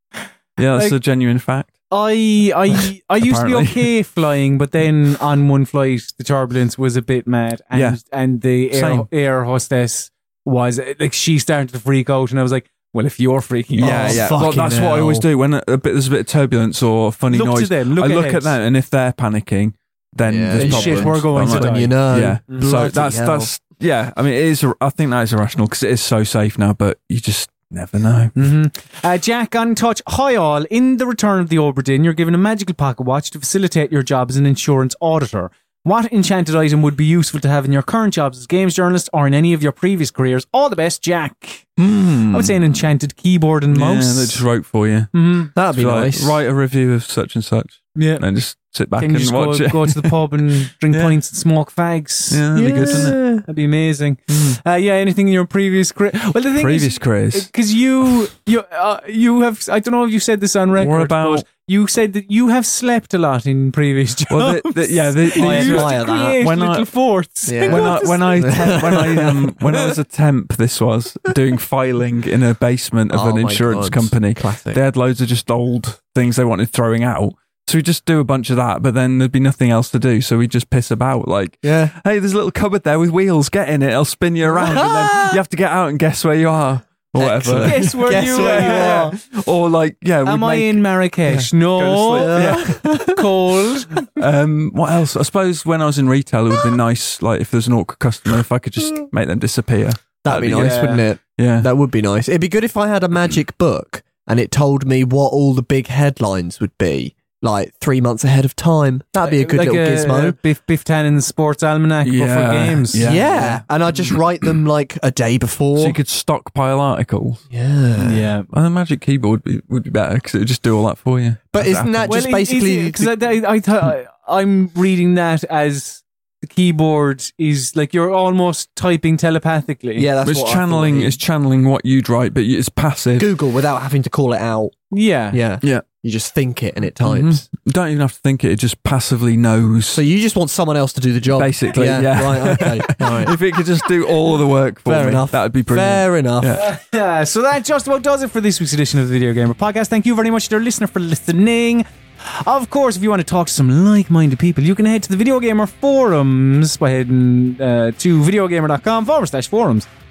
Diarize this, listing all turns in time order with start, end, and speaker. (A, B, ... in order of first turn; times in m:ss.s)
0:00.6-0:01.7 A
0:01.9-0:14.2 B
0:03.2-0:03.9 A
0:07.7-0:08.0 A
0:08.7-0:09.1 A
0:13.8-0:15.3 C
0:13.8-0:28.4 A
0:17.3-0:18.6 B
0:20.3-0:23.5 C
0:20.6-0:22.0 B
0:28.4-0:41.8 B
0:41.8-0:42.6 A
0:42.3-0:44.4 B
0:43.7-0:50.1 A
0:45.1-0:45.5 B
0:45.6-0:46.4 C
0:48.0-0:48.2 B
0:49.0-1:08.8 B
0:50.9-0:51.2 A
0:52.3-0:53.2 A
0:52.5-0:53.4 C
0:54.3-0:54.6 A
0:56.6-0:57.5 A
1:00.8-1:01.4 A
1:04.3-1:06.9 A
1:05.4-1:06.4 C
1:07.4-1:10.0 C
1:07.7-1:33.3 A
1:13.1-1:14.8 C
1:21.6-1:21.9 C
1:24.5-1:25.4 C
1:27.2-1:29.2 C
1:27.6-1:29.1 B
1:30.2-1:34.1 B
1:32.2-1:33.1 C
1:34.0-1:41.7 A
1:40.2-1:50.4 C
1:40.5-1:41.0 B
1:49.2-1:53.6 B
1:52.0-1:54.2 A
1:53.0-1:56.0 C
1:55.8-1:57.4 A
1:57.5-1:58.3 C
1:58.0-1:58.5 B
1:58.5-2:02.2 A
2:01.5-2:03.1 C
2:02.1-2:10.1 B
2:10.0-2:11.2 C
2:10.2-2:13.3 A
2:13.2-2:17.4 C
2:14.9-2:15.4 B
2:17.0-2:20.0 A
2:19.9-2:23.4 C
2:21.4-2:26.7 A
2:24.9-2:26.6 C
2:26.5-2:39.9 B